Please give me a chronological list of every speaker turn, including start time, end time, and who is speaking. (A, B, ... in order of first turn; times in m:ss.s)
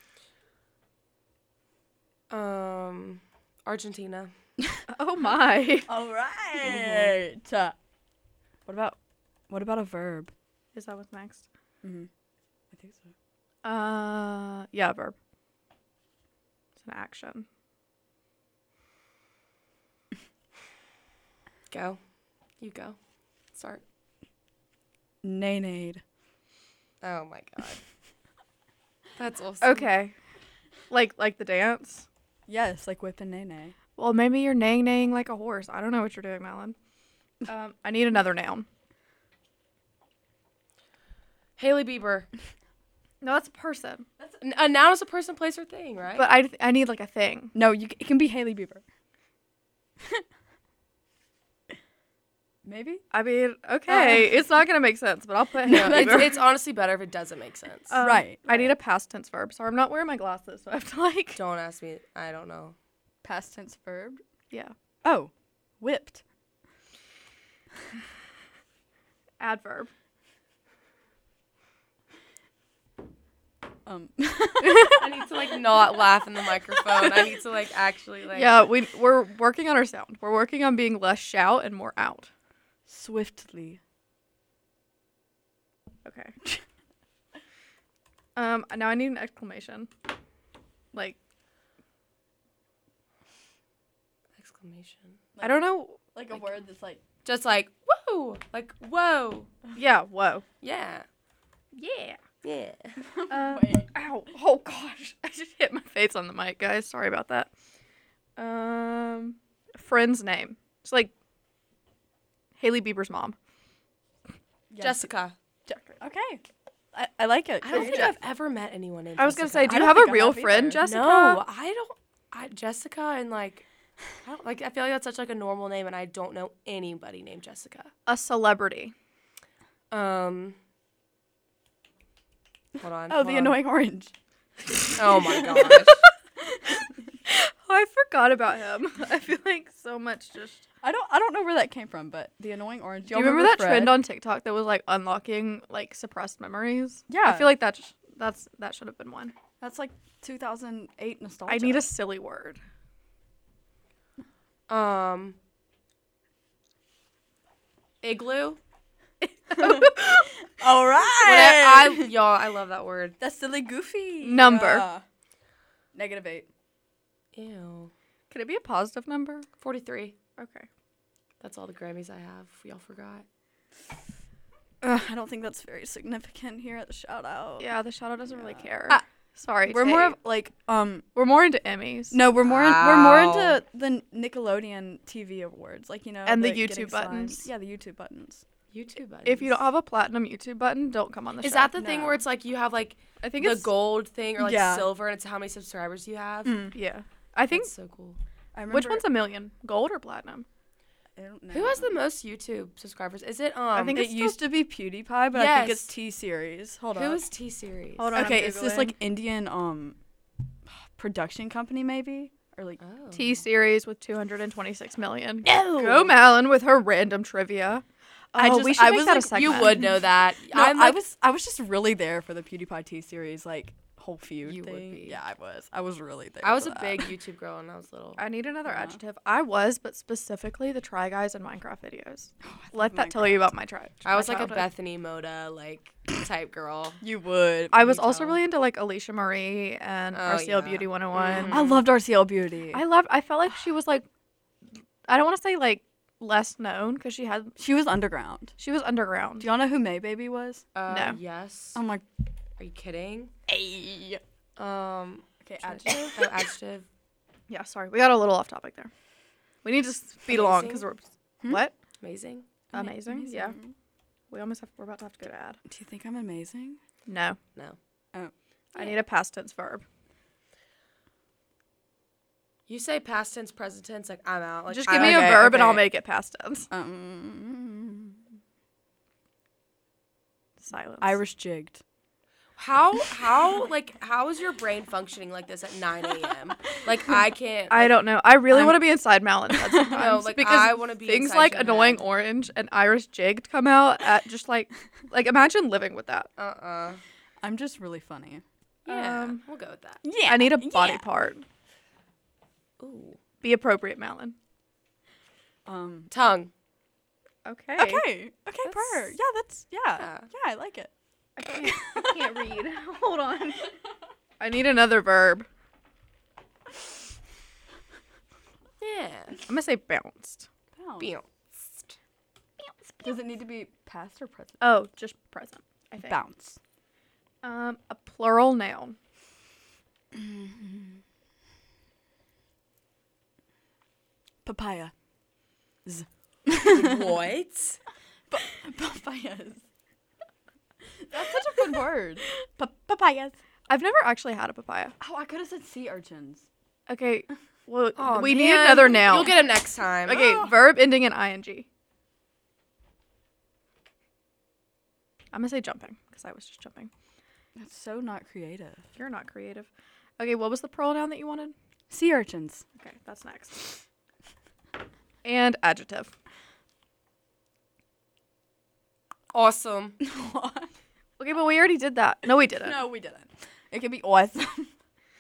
0:02.3-0:04.3 A
0:04.9-0:05.9 B
0:05.9-0:07.8 C
0:06.7-0:07.1 A
0:08.7-0:09.0 C
0:09.5-0:10.3 C
0:10.7-0:11.5 B
0:11.8-0:12.1 C
0:12.7-0:13.1 C
0:13.6-0:15.2 B
0:16.8-0:17.5 B
0:21.7-0:22.0 A
0:22.6-0:23.0 A
0:23.5-0:23.8 A
0:25.2-0:26.0 C
0:27.0-0:27.8 A
0:29.2-0:30.0 A
0:29.6-0:30.2 B
0:30.9-0:32.1 B
0:32.5-0:33.8 C
0:34.0-0:36.8 B
0:37.5-0:38.7 B
0:41.6-0:42.3 A
0:43.2-0:44.0 B
0:44.4-0:46.3 A
0:46.2-0:47.6 B
0:47.5-0:48.8 C
0:52.6-0:53.0 C
0:53.1-0:56.3 B
0:53.9-0:54.4 C
0:55.7-0:56.3 C
0:55.7-0:58.7 A
0:57.9-1:01.4 B
0:58.0-0:58.4 C
1:01.4-1:02.8 A
1:03.2-1:04.2 C
1:05.0-1:06.2 C
1:09.4-1:09.9 B
1:13.9-1:15.3 C
1:14.6-1:15.0 B
1:15.0-1:18.6 A
1:16.7-1:17.2 C
1:18.3-1:22.3 B
1:22.9-1:23.8 C
1:26.0-1:26.4 B
1:28.4-1:29.9 B
1:34.4-1:35.2 A
1:35.4-1:37.0 C
1:35.4-1:36.1 B
1:37.2-1:39.5 A
1:39.8-1:40.4 B
1:40.6-1:41.1 A
1:41.7-1:42.2 B
1:42.4-1:43.0 A
1:43.0-1:43.9 C
1:43.3-1:47.5 B
1:48.4-1:51.1 B
1:52.6-1:53.4 B
1:54.7-1:55.1 C
1:54.8-1:55.4 A
1:55.7-1:58.2 C
1:57.6-1:59.8 A
1:57.7-1:58.1 B
1:59.2-2:01.4 B
1:59.6-2:00.8 C
2:00.8-2:03.6 A
2:04.2-2:07.9 A
2:08.1-2:08.9 B
2:09.9-2:10.6 A
2:12.8-2:13.6 A
2:13.1-2:14.1 C
2:14.9-2:16.0 A
2:15.2-2:15.8 C
2:15.6-2:16.0 B
2:16.8-2:20.6 B
2:20.8-2:24.0 C
2:23.1-2:29.3 B
2:27.1-2:27.5 C
2:29.6-2:31.9 C
2:31.5-2:32.6 B
2:34.7-2:35.4 A
2:38.0-2:38.6 A
2:39.2-2:40.3 B
2:39.5-2:42.1 C
2:41.2-2:43.2 A
2:43.2-2:45.0 C
2:44.2-2:44.9 B
2:45.9-2:46.5 C
2:47.3-2:47.9 A
2:48.3-2:49.5 B
2:49.6-2:50.2 A
2:50.4-2:50.7 B
2:51.4-2:53.2 A
2:54.8-2:57.7 C
2:57.6-3:00.2 B
2:58.4-2:59.0 C
2:59.7-3:01.1 C
3:01.2-3:02.2 B
3:02.1-3:08.4 C
3:02.4-3:03.6 A
3:06.3-3:07.5 B
3:08.7-3:09.6 A
3:09.2-3:11.7 B
3:11.4-3:16.7 A
3:11.8-3:12.2 C
3:13.2-3:13.7 B
3:14.4-3:14.9 C
3:16.4-3:16.8 C
3:16.7-3:17.7 B
3:17.5-3:18.2 A
3:18.5-3:19.1 C
3:18.7-3:20.5 B
3:21.2-3:22.0 C
3:21.5-3:24.1 A
3:23.7-3:24.4 B
3:23.9-3:27.2 C
3:25.3-3:25.9 A
3:26.9-3:28.2 A
3:28.0-3:29.0 B
3:28.2-3:30.0 C
3:30.7-3:32.8 C
3:32.8-3:33.4 A
3:33.1-3:39.8 B
3:35.5-3:36.1 C
3:38.4-3:47.1 C
3:39.3-3:41.0 A
3:44.4-3:45.2 A
3:46.4-3:48.2 A
3:48.2-3:54.7 B
3:48.7-3:49.0 C
3:52.4-3:53.5 C
3:54.0-3:57.0 A
3:57.0-3:57.8 C
3:57.7-4:01.6 B
3:57.8-3:58.4 A
4:00.1-4:01.8 A
4:01.5-4:02.8 C
4:02.7-4:04.1 B
4:05.1-4:07.6 B
4:07.6-4:08.5 C
4:08.6-4:09.5 B
4:09.4-4:10.6 C
4:10.8-4:11.8 A
4:10.9-4:11.2 B
4:11.8-4:12.0 C
4:12.6-4:13.3 A
4:13.5-4:14.2 C
4:14.6-4:16.9 A
4:15.4-4:16.4 C
4:17.5-4:18.9 B
4:19.6-4:21.7 B
4:20.3-4:20.9 A
4:22.0-4:22.5 A
4:22.7-4:23.7 C
4:22.7-4:23.6 B
4:24.3-4:25.6 B
4:25.7-4:26.8 C
4:27.1-4:27.4 B
4:28.8-4:29.8 B
4:32.7-4:35.6 A
4:34.7-4:36.7 B
4:34.9-4:35.9 C
4:36.7-4:38.2 C
4:40.6-4:41.2 B
4:41.0-4:41.8 C
4:42.6-4:48.0 A
4:47.7-4:56.3 B
4:48.5-4:48.8 C
4:49.5-4:50.0 C
4:50.0-4:52.1 A
4:56.4-4:57.0 A
4:57.4-4:58.4 C
4:58.9-4:59.4 B
4:58.9-5:00.0 A
5:00.0-5:01.0 C
5:00.2-5:01.4 B
5:02.8-5:03.2 A
5:03.4-5:04.4 B
5:05.7-5:06.1 C
5:06.1-5:06.5 A
5:07.4-5:08.0 B
5:07.8-5:10.9 C
5:08.6-5:09.1 A
5:10.0-5:10.3 A
5:11.4-5:13.7 B
5:11.5-5:12.4 C
5:14.4-5:15.5 B
5:18.8-5:19.4 A
5:19.5-5:20.5 B
5:20.8-5:21.1 C
5:21.0-5:22.0 A
5:22.6-5:23.1 B
5:23.0-5:24.6 C
5:24.6-5:26.2 B
5:26.0-5:26.6 C
5:27.4-5:29.0 B
5:30.1-5:31.0 C
5:34.4-5:34.9 C
5:35.8-5:37.2 C
5:36.6-5:37.8 A
5:38.3-5:39.6 C
5:41.0-5:43.4 C
5:43.7-5:45.0 B
5:45.0-5:46.4 C
5:46.9-5:49.4 B
5:48.0-5:50.3 A
5:50.1-5:51.7 B
5:50.1-5:50.6 C
5:55.3-5:56.9 B
5:57.6-5:58.9 C
5:59.0-6:01.5 B
6:01.9-6:02.6 C
6:02.8-6:03.8 B
6:05.2-6:06.1 B
6:09.3-6:10.0 A
6:10.0-6:10.7 C
6:11.2-6:12.8 B
6:12.6-6:14.7 C